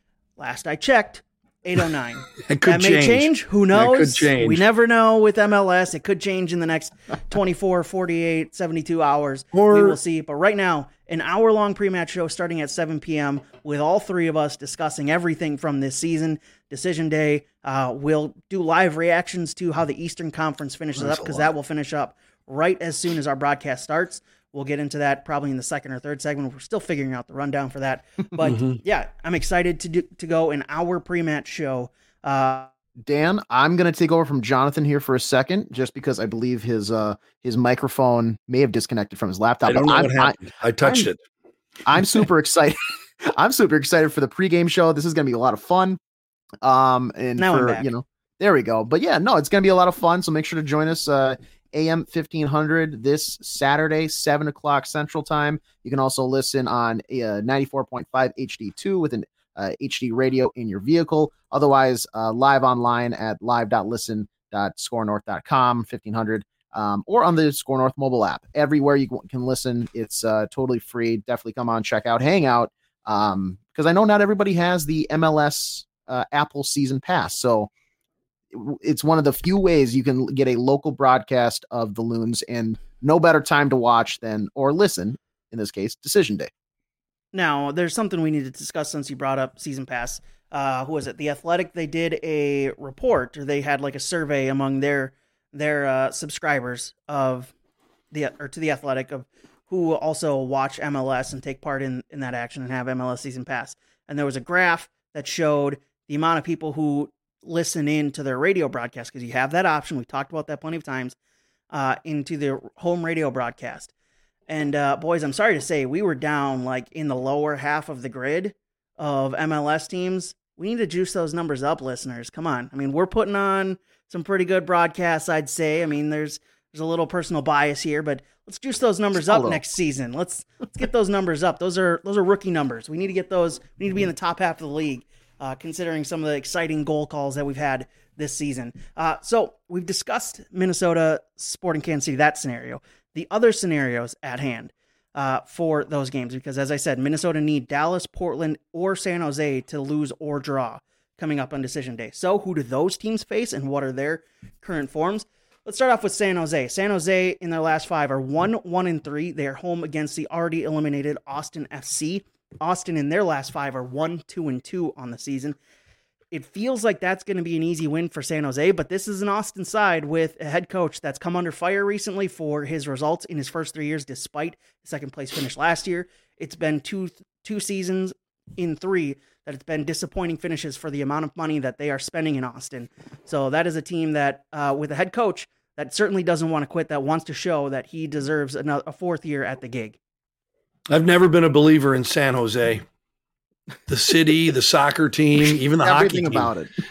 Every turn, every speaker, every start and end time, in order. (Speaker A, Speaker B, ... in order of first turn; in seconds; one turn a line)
Speaker A: 0.4-32.7
Speaker B: 2.4-4.6
Speaker B: 9.5-10.0
Speaker B: 20.9-21.5
Speaker B: 28.4-28.8
Speaker C: 33.0-41.1
Speaker B: 39.6-41.2
Speaker C: 41.9-46.0
Speaker C: 46.6-77.7
Speaker A: 47.4-47.9
Speaker C: 78.5-86.5
Speaker A: 87.3-97.5
Speaker A: 98.1-111.2
Speaker A: 111.7-113.9
Speaker A: 114.5-165.6
Speaker C: 129.3-129.6
Speaker A: 166.3-190.0
Speaker B: 190.9-192.8
Speaker B: 193.9-196.5
Speaker C: 195.8-196.7